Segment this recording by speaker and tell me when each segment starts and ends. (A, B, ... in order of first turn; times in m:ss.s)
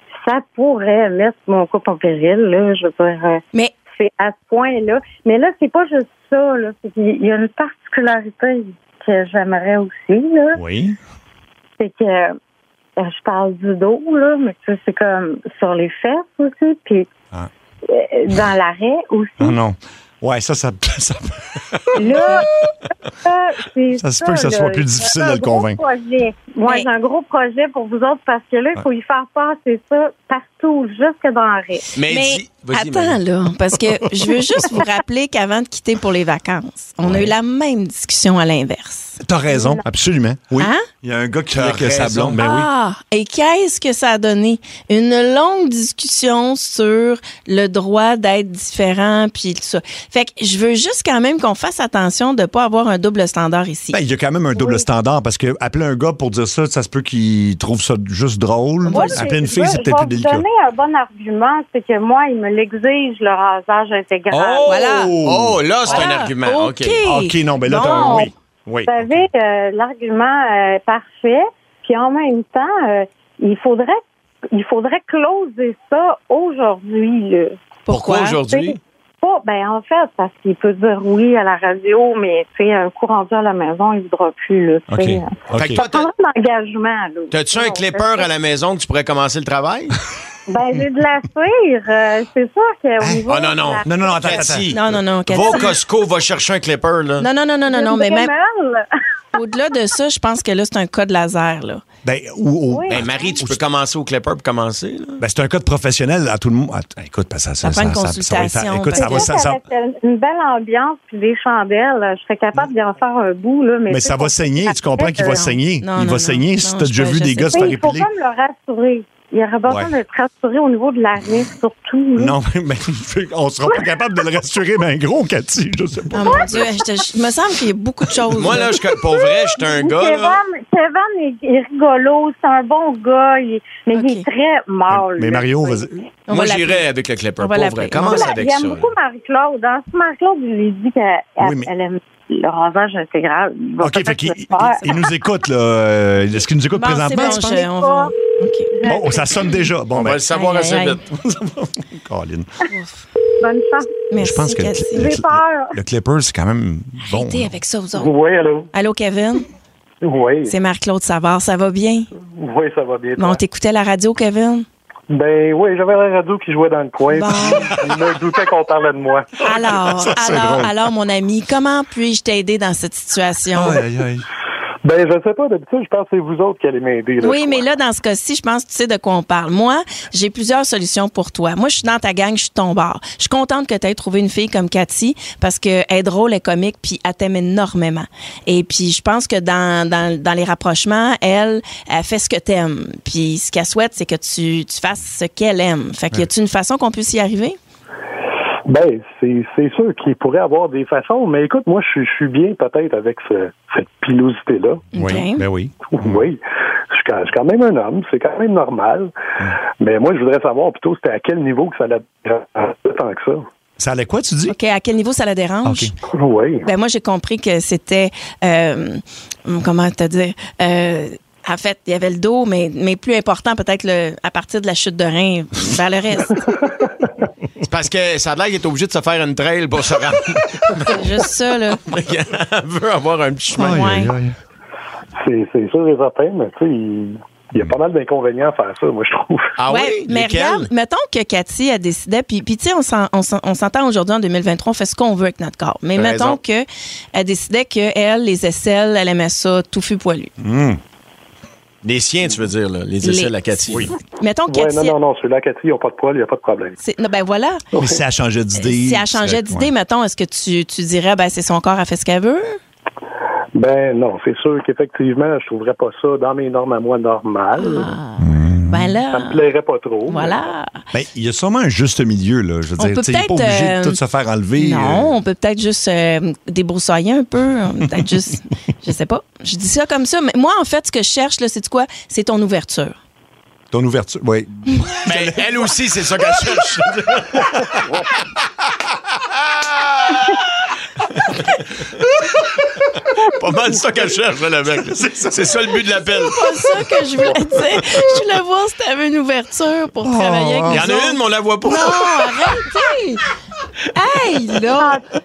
0:00.2-0:03.4 A
0:03.9-0:10.6 A
0:10.6-0:11.0 B
0:11.8-0:12.4 A
0:13.0-0:17.1 A
0:17.9-0:19.6 A
0:19.4-0:22.3 B
0:22.0-0:22.7 A
0:22.0-0:22.4 C
0:23.2-0:31.9 A
0:24.0-0:25.8 B
0:31.9-0:33.2 D
0:32.1-0:39.2 C
0:37.0-0:37.3 B
0:39.2-0:42.7 B
0:39.5-0:39.8 A
0:40.6-0:40.9 C
0:41.6-0:42.4 D
0:42.4-0:54.0 C
0:53.9-1:00.5 B
0:54.6-0:54.8 A
0:58.8-0:59.3 C
0:58.9-1:04.8 A
1:04.3-1:06.0 B
1:04.7-1:05.2 C
1:05.2-1:07.0 D
1:05.9-1:08.3 C
1:07.0-1:09.3 B
1:08.9-1:14.0 A
1:14.5-1:17.6 A
1:17.9-1:18.4 C
1:17.9-1:18.8 D
1:18.4-1:28.3 A
1:24.9-1:25.8 B
1:25.5-1:26.1 D
1:27.3-1:30.0 D
1:30.5-1:34.1 A
1:33.0-1:33.3 B
1:33.3-1:37.3 D
1:33.8-1:34.7 B
1:34.7-1:35.8 C
1:37.2-1:38.3 C
1:37.7-1:38.9 A
1:39.3-1:41.8 C
1:42.0-1:43.6 B
1:42.7-1:43.3 A
1:42.9-1:45.2 D
1:45.2-1:49.6 B
1:47.6-1:49.3 C
1:49.0-1:55.5 A
1:53.9-1:58.1 B
1:55.2-1:57.7 C
1:57.5-2:02.4 A
1:59.7-1:59.9 B
2:02.2-2:06.7 B
2:06.1-2:08.7 C
2:08.4-2:10.4 D
2:09.1-2:15.9 A
2:13.9-2:14.3 C
2:14.9-2:16.0 B
2:16.3-2:16.8 C
2:16.3-2:18.9 D
2:17.4-2:18.3 C
2:18.0-2:25.1 A
2:21.4-2:21.7 B
2:23.8-2:27.6 B
2:24.6-2:25.0 C
2:26.8-2:28.7 C
2:27.1-2:28.2 A
2:28.8-2:29.6 A
2:28.8-2:30.2 B
2:29.9-2:31.0 D
2:30.3-2:31.0 C
2:31.1-2:32.5 B
2:32.7-2:33.0 C
2:33.4-2:33.9 A
2:34.1-2:35.2 C
2:34.2-2:37.5 B
2:35.0-2:35.8 A
2:37.0-2:38.1 C
2:38.0-2:38.7 E
2:38.7-2:39.4 C
2:40.0-2:40.6 E
2:40.5-2:42.1 C
2:42.3-2:43.4 E
2:43.2-2:44.7 C
2:45.1-2:49.3 E
2:47.1-2:47.8 C
2:49.4-2:53.8 C
2:49.5-2:50.7 B
2:53.5-2:54.3 B
2:54.8-2:57.7 E
2:57.2-3:17.6 C
3:18.7-3:24.8 E
3:24.9-3:25.4 C
3:25.0-3:26.2 B
3:25.9-3:29.1 E
3:29.8-3:33.5 E
3:33.8-3:34.6 B
3:34.5-3:35.9 C
3:35.6-3:35.9 B
3:36.1-3:36.7 E
3:36.6-3:46.4 C
3:47.7-3:51.3 D
3:50.9-3:51.8 C
3:51.8-3:53.8 D
3:53.6-3:54.1 C
3:53.6-3:54.4 B
3:55.2-3:59.5 E
3:59.6-4:00.7 D
3:59.7-4:10.3 C
4:06.0-4:06.4 D
4:10.4-4:10.8 B
4:11.8-4:13.9 D
4:13.0-4:13.3 C
4:14.2-4:15.0 C
4:14.5-4:16.8 E
4:16.8-4:17.6 C
4:17.8-4:19.7 B
4:18.6-4:22.6 C
4:23.6-4:27.9 E
4:27.6-4:29.4 C
4:28.2-4:28.9 B
4:29.1-4:30.5 E
4:30.1-4:30.8 C
4:30.9-4:35.2 B
4:32.8-4:34.0 C
4:34.6-4:43.0 C
4:43.7-4:45.5 B
4:45.0-4:47.7 D
4:49.4-4:50.4 D
4:51.2-4:51.9 D
4:53.2-4:56.4 D
4:54.9-4:55.5 B
4:56.2-5:03.2 C
5:00.0-5:00.9 B
5:00.7-5:02.3 D
5:03.9-5:05.0 C
5:04.8-5:05.0 A